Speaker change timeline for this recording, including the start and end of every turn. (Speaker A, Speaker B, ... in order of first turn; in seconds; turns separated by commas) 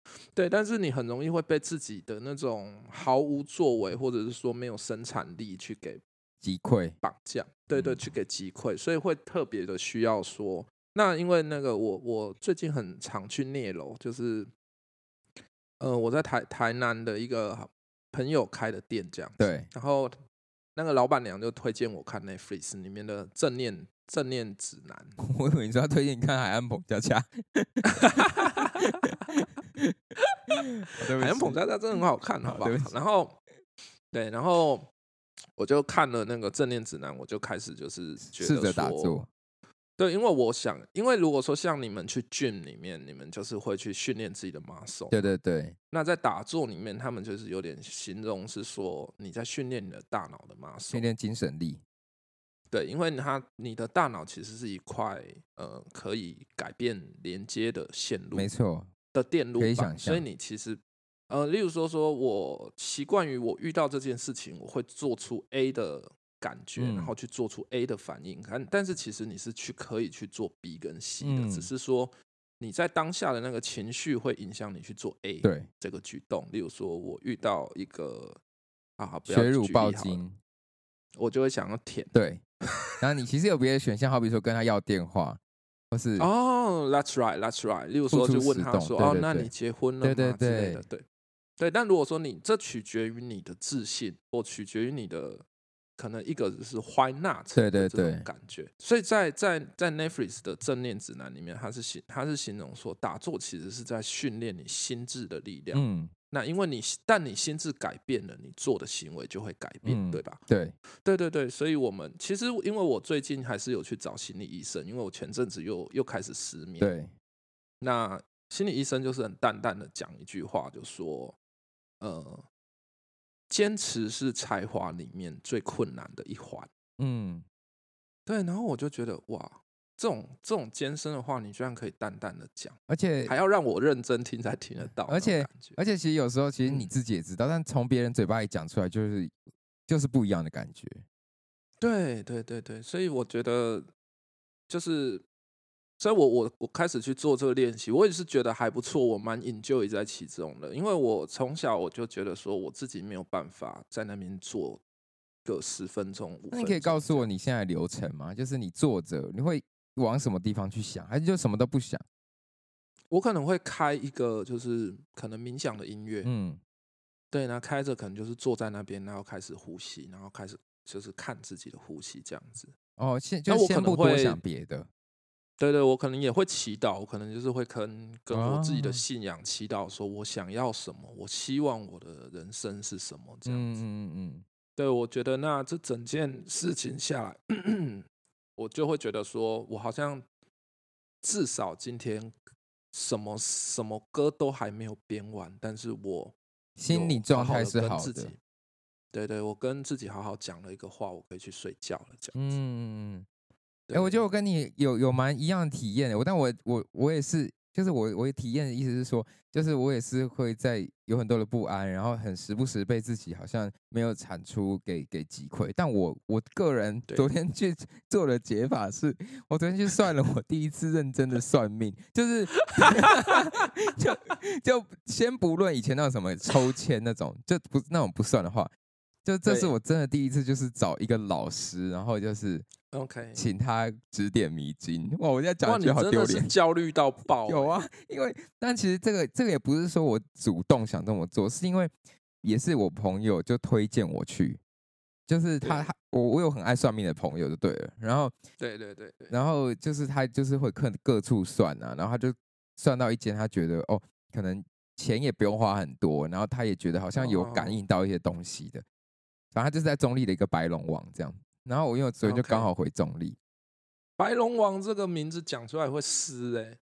Speaker A: 0.3-6.0, Speaker B: 6.4-7.0, Speaker A: 7.0-14.5, Speaker A: 15.8-20.1, Speaker B: 19.4-19.7, Speaker A: 20.8-25.1, Speaker B: 25.2-29.9, Speaker A: 28.0-28.5, Speaker B: 30.5-31.6, Speaker A: 31.2-33.4, Speaker B: 32.4-32.9, Speaker A: 34.1-34.9, Speaker A: 35.6-39.2, Speaker B: 38.2-39.3, Speaker A: 40.0-45.2, Speaker B: 45.1-45.8, Speaker A: 45.9-51.0, Speaker B: 50.9-51.8, Speaker A: 52.7-58.5, Speaker B: 58.3-58.9, Speaker A: 59.1-78.4, Speaker B: 59.6-60.2, Speaker B: 66.8-67.1, Speaker B: 71.2-71.7, Speaker B: 75.4-75.7, Speaker A: 79.0-80.2, Speaker B: 79.3-80.3, Speaker A: 81.2-82.1, Speaker B: 82.1-82.4, Speaker B: 83.0-85.4, Speaker B: 85.9-86.3, Speaker A: 86.2-91.0, Speaker B: 88.1-89.5, Speaker B: 90.0-90.8, Speaker A: 91.6-95.4, Speaker A: 96.0-110.4, Speaker B: 97.5-98.3, Speaker B: 105.7-106.1, Speaker B: 109.8-110.7, Speaker A: 111.0-116.9, Speaker B: 116.8-117.1, Speaker A: 117.8-121.4, Speaker A: 122.0-122.4, Speaker A: 123.5-126.7, Speaker B: 127.0-127.4, Speaker A: 128.3-132.8, Speaker B: 132.9-133.3, Speaker A: 133.3-135.8, Speaker B: 135.1-139.3, Speaker A: 136.6-136.9, Speaker B: 139.9-141.0, Speaker A: 141.8-143.9, Speaker A: 144.7-145.2, Speaker A: 146.0-154.8, Speaker A: 155.4-157.2, Speaker B: 156.5-162.0, Speaker A: 163.1-166.3, Speaker B: 166.2-166.6, Speaker A: 167.3-172.7, Speaker B: 173.0-174.9, Speaker A: 173.5-174.4, Speaker A: 175.6-183.8, Speaker B: 178.3-179.0, Speaker B: 183.4-184.4, Speaker A: 184.8-188.1, Speaker A: 188.6-190.2, Speaker A: 191.2-192.3, Speaker A: 192.9-196.3, Speaker B: 196.8-198.3, Speaker A: 196.9-198.4, Speaker A: 199.1-202.4, Speaker B: 202.3-203.2, Speaker A: 203.9-204.2, Speaker B: 203.9-228.7, Speaker A: 222.8-223.3, Speaker B: 229.2-232.7, Speaker A: 229.4-229.7, Speaker A: 232.9-233.4, Speaker B: 233.3-236.5, Speaker A: 235.6-237.8, Speaker B: 237.4-244.6, Speaker B: 245.3-248.3, Speaker A: 245.6-245.9, Speaker A: 248.6-249.3, Speaker B: 249.3-258.8, Speaker A: 257.1-257.8, Speaker B: 259.5-263.4, Speaker A: 262.2-262.7, Speaker A: 264.2-266.8